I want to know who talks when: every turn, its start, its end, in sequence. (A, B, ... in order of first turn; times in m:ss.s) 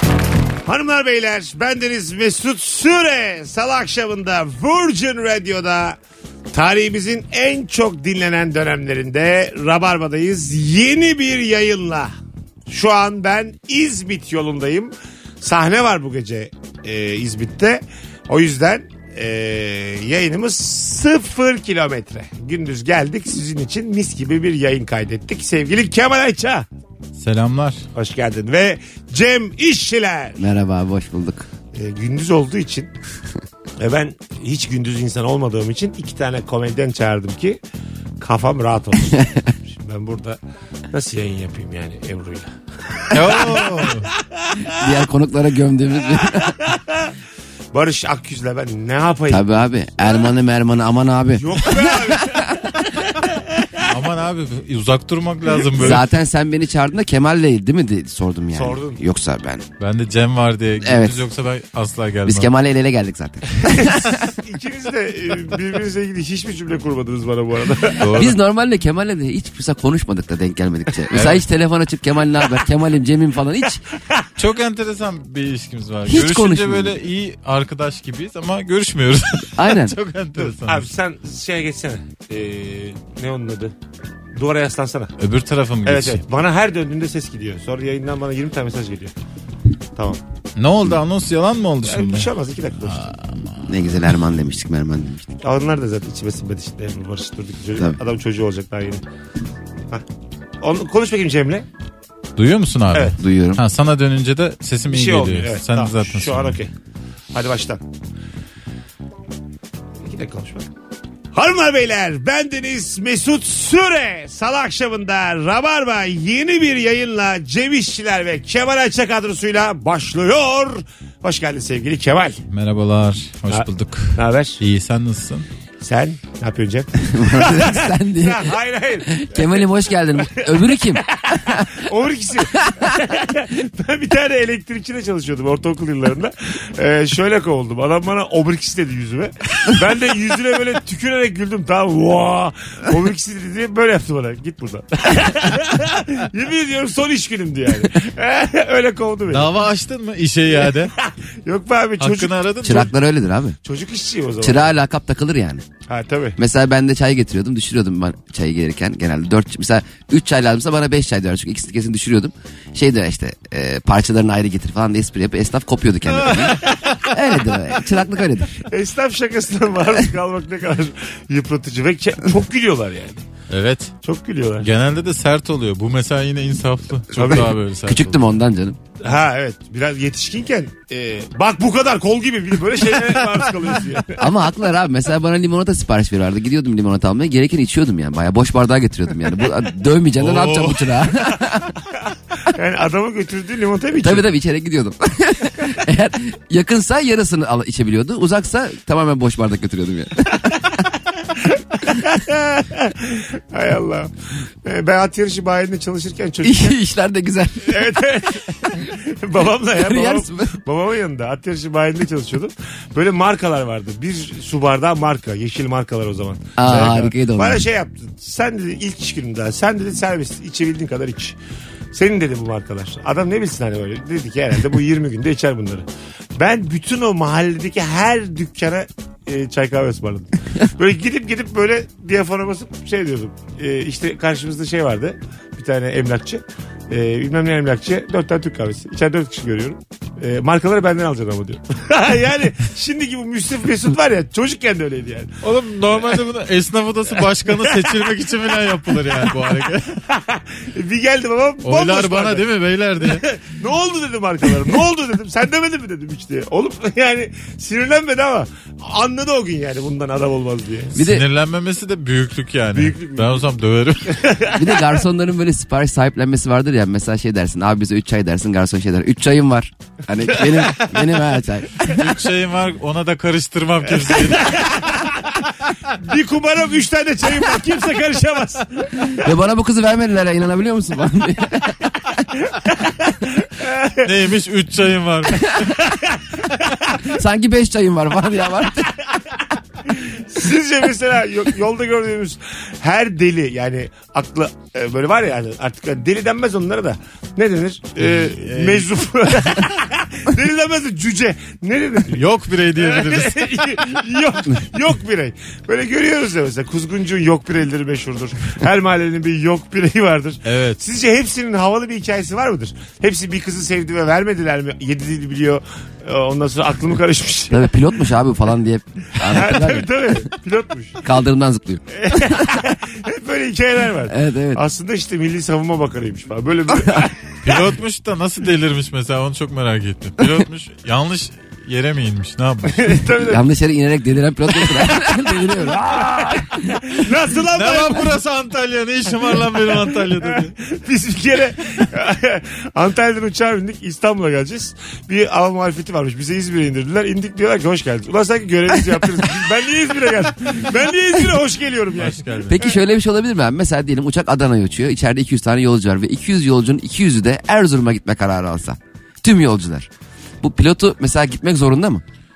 0:00.7-0:06.0 A
0:06.5-0:12.1 A
0:12.7-0:26.7 A
0:27.2-0:27.8 B
0:28.0-0:30.5 A
0:30.4-0:31.5 C
0:31.7-0:32.9 A
0:33.8-0:37.6 A
0:38.2-0:40.4 A
0:39.1-0:39.5 C
0:40.9-0:44.8 A
0:43.1-0:44.1 B
0:44.7-0:46.6 C
0:46.2-0:47.1 A
0:47.7-0:49.6 A
0:49.3-0:52.5 C
0:51.4-0:53.8 A
0:53.9-0:56.0 B
0:55.8-0:59.6 C
0:58.5-0:59.0 A
0:59.8-1:02.5 B
1:00.8-1:01.2 C
1:02.2-1:04.3 C
1:03.6-1:08.1 A
1:08.0-1:08.4 B
1:08.1-1:13.8 C
1:11.1-1:11.4 B
1:14.0-1:14.2 A
1:14.4-1:20.9 B
1:16.1-1:17.0 C
1:19.6-1:20.0 C
1:20.4-1:23.8 A
1:24.4-1:25.1 A
1:25.2-1:26.2 B
1:25.8-1:29.1 A
1:30.6-1:32.3 B
1:31.8-1:33.1 A
1:32.8-1:33.7 B
1:33.7-1:35.3 C
1:35.4-1:39.0 A
1:40.6-1:41.7 A
1:42.4-1:46.6 B
1:43.2-1:43.6 C
1:44.9-1:46.7 A
1:47.3-1:47.8 A
1:50.0-1:50.7 A
1:51.3-2:02.4 A
2:02.5-2:05.5 B
2:03.5-2:04.6 A
2:05.8-2:29.5 A
2:07.0-2:08.6 C
2:09.1-2:11.8 C
2:12.6-2:13.0 C
2:29.3-2:30.9 B
2:30.8-2:32.3 A
2:32.0-2:32.9 B
2:32.6-2:33.6 C
2:33.6-2:34.7 A
2:34.4-2:35.6 C
2:35.9-2:36.4 A
2:36.4-2:48.5 C
2:46.2-2:46.7 B
2:48.6-2:53.2 A
2:53.5-2:53.9 B
2:54.0-2:54.7 A
2:54.6-2:58.3 B
2:57.1-2:57.5 A
2:57.2-2:58.8 C
2:59.0-3:04.2 A
3:04.2-3:11.8 C
3:10.1-3:11.2 B
3:12.4-3:14.3 A
3:14.0-3:20.7 C
3:21.3-3:24.1 A
3:24.6-3:26.8 A
3:26.4-3:27.9 C
3:27.6-3:41.4 A
3:29.7-3:30.5 C
3:36.6-3:37.6 C
3:41.9-4:05.4 A
4:05.4-4:10.0 B
4:10.1-4:12.4 A
4:11.6-4:13.3 B
4:13.0-4:21.0 A
4:21.0-4:21.2 C
4:21.0-4:24.4 B
4:22.8-4:23.4 A
4:24.1-4:24.8 A
4:24.5-4:32.1 C
4:31.8-4:34.8 B
4:34.1-4:39.2 A
4:39.2-4:42.1 C
4:42.4-4:44.1 A
4:44.0-4:45.8 B
4:45.7-4:47.1 A
4:47.0-4:49.0 C
4:49.9-5:02.2 A
4:58.0-4:58.9 B
5:02.1-5:03.7 B
5:02.8-5:17.7 A
5:10.4-5:10.8 B
5:17.5-5:19.9 C
5:19.2-5:21.0 A
5:21.0-5:22.4 C
5:21.9-5:27.6 A
5:24.1-5:24.6 C
5:27.4-5:33.0 B
5:32.7-5:33.4 A
5:33.2-5:36.9 C
5:34.8-5:35.2 A
5:35.8-5:38.1 A
5:37.5-5:40.6 B
5:40.2-5:52.7 A
5:52.0-5:52.6 B
5:52.5-5:59.9 C
6:00.4-6:02.0 C